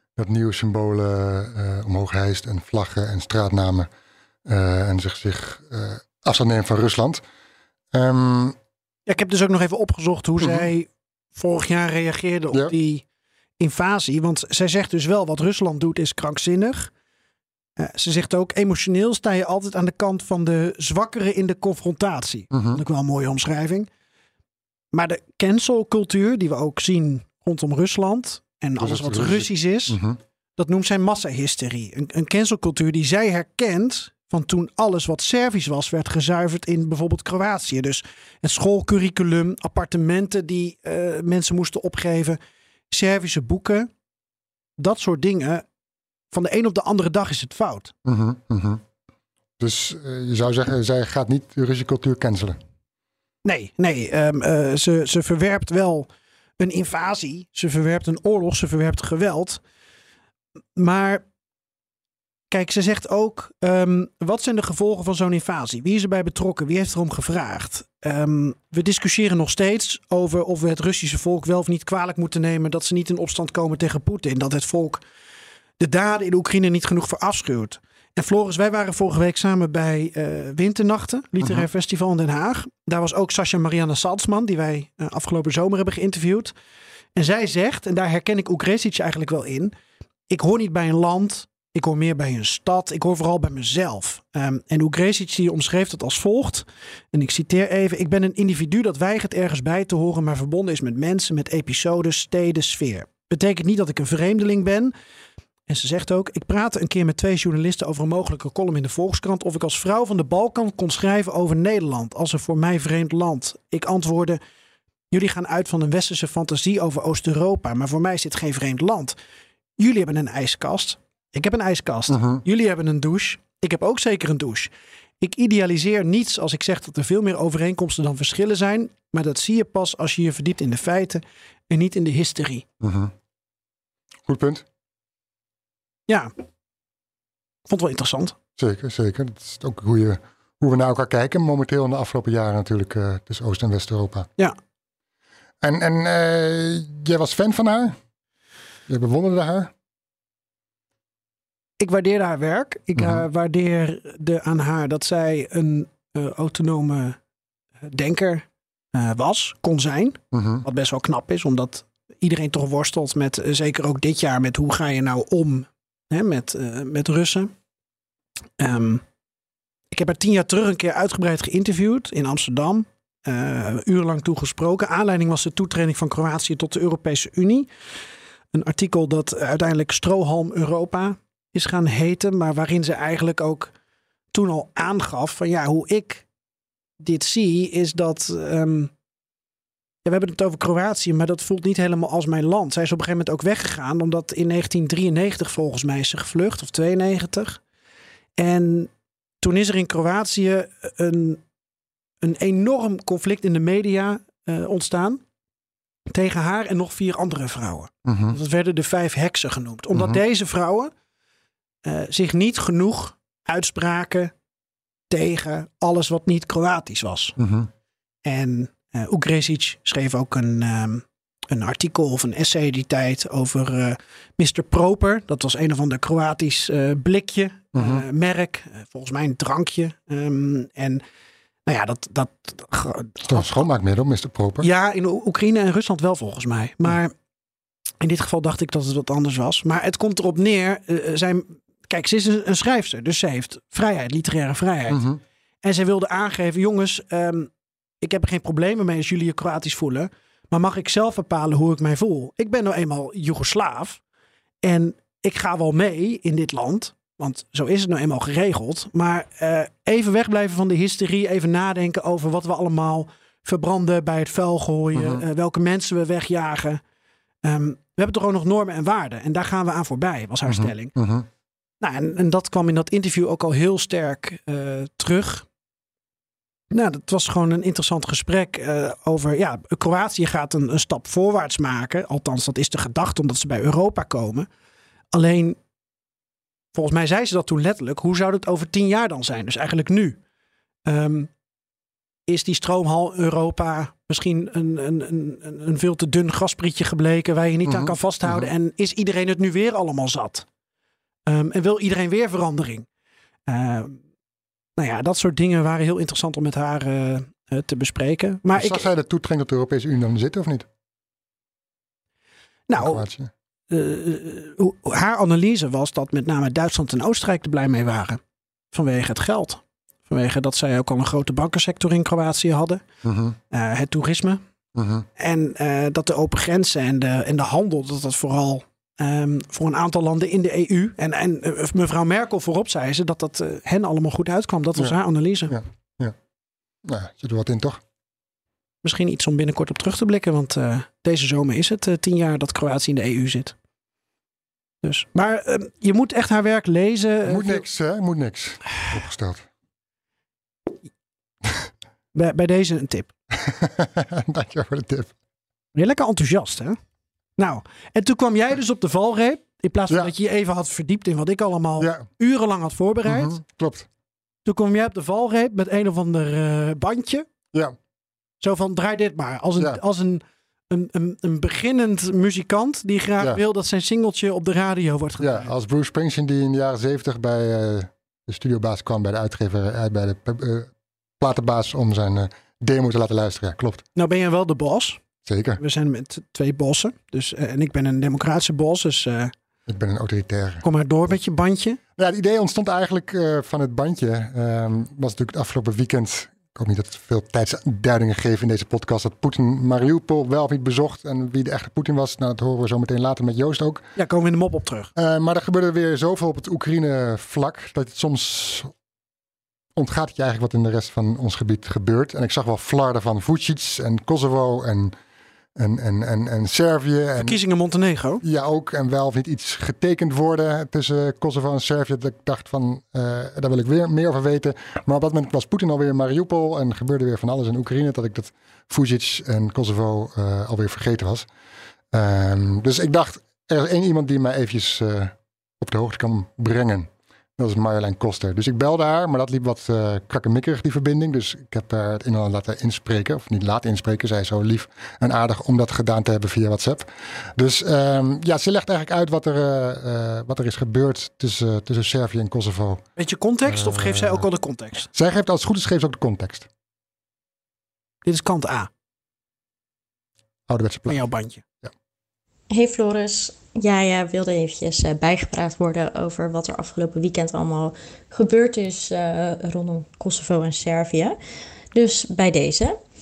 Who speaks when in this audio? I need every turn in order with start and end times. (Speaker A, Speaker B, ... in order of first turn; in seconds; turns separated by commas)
Speaker A: 0.2-3.9, Speaker A: 4.5-7.2, Speaker A: 7.9-8.6, Speaker B: 9.1-13.0, Speaker A: 10.4-10.7, Speaker B: 13.6-16.9, Speaker B: 17.8-23.9, Speaker A: 22.5-22.8, Speaker B: 24.9-30.0, Speaker A: 28.8-30.2, Speaker B: 30.6-42.4, Speaker B: 42.9-43.9, Speaker B: 44.8-45.6, Speaker B: 46.3-47.9, Speaker A: 48.0-48.8, Speaker A: 49.6-52.6, Speaker B: 53.4-56.1, Speaker B: 56.6-59.6, Speaker B: 60.8-61.2, Speaker B: 62.5-75.0, Speaker B: 75.8-86.5, Speaker B: 87.2-89.7, Speaker B: 90.3-104.9, Speaker B: 105.7-114.4, Speaker B: 115.1-119.2, Speaker B: 119.8-132.7, Speaker A: 122.1-122.4, Speaker A: 132.8-133.1, Speaker A: 134.3-134.7, Speaker B: 137.7-138.4, Speaker A: 138.6-144.3, Speaker A: 145.6-148.0, Speaker A: 148.9-149.7, Speaker B: 151.8-157.2, Speaker A: 153.0-153.2, Speaker B: 157.8-167.5, Speaker A: 160.3-160.6, Speaker B: 168.6-169.0, Speaker B: 169.9-177.7, Speaker B: 178.5-183.7, Speaker B: 184.3-186.2, Speaker B: 187.0-188.9, Speaker B: 190.1-197.6, Speaker B: 198.4-198.9, Speaker B: 199.4-201.4, Speaker B: 202.2-205.2, Speaker B: 206.1-210.9, Speaker A: 208.1-208.3, Speaker A: 209.9-210.2, Speaker B: 211.8-214.3, Speaker B: 215.1-217.4, Speaker A: 217.4-217.7, Speaker B: 218.2-231.0, Speaker A: 227.7-228.0, Speaker B: 231.7-233.7, Speaker A: 233.3-234.7, Speaker B: 234.6-237.1, Speaker B: 238.0-245.0, Speaker A: 244.9-245.2, Speaker B: 245.6-247.5, Speaker B: 248.0-254.0, Speaker B: 254.6-266.8, Speaker A: 264.9-265.2, Speaker B: 267.4-271.0, Speaker A: 270.5-271.3, Speaker B: 271.8-275.4, Speaker B: 276.7-284.5, Speaker B: 285.1-285.6, Speaker B: 286.7-290.2, Speaker B: 290.9-291.3, Speaker B: 292.3-300.5, Speaker A: 297.6-298.5, Speaker B: 301.3-302.9, Speaker B: 303.5-304.0, Speaker B: 304.8-308.9, Speaker A: 308.6-310.7, Speaker B: 312.7-313.1, Speaker A: 312.8-313.3, Speaker B: 313.7-318.2, Speaker B: 318.7-322.8, Speaker A: 323.0-323.4, Speaker B: 323.5-324.4, Speaker A: 324.8-325.1, Speaker B: 325.2-335.6, Speaker A: 335.5-336.1, Speaker A: 336.9-337.8, Speaker B: 338.8-343.6, Speaker B: 344.8-347.7, Speaker A: 347.3-349.5, Speaker B: 352.1-353.1, Speaker A: 353.3-355.1, Speaker B: 355.8-356.8, Speaker B: 357.4-363.4, Speaker A: 361.8-362.1, Speaker A: 363.1-363.9, Speaker B: 364.5-367.3, Speaker B: 368.4-375.5, Speaker A: 375.2-383.9, Speaker B: 384.0-385.0, Speaker A: 385.2-385.6, Speaker B: 385.6-389.3, Speaker A: 389.7-390.6, Speaker B: 390.6-391.8, Speaker A: 392.0-403.9, Speaker B: 404.0-404.9, Speaker A: 405.0-408.7, Speaker A: 409.8-414.9, Speaker A: 415.6-417.4, Speaker B: 417.2-418.2, Speaker A: 418.2-431.3, Speaker A: 431.9-452.8, Speaker B: 453.0-454.9, Speaker A: 453.4-454.2, Speaker A: 454.9-456.5, Speaker B: 458.1-458.7, Speaker A: 460.5-461.1, Speaker B: 460.9-461.4, Speaker C: 462.5-471.2, Speaker C: 471.7-472.8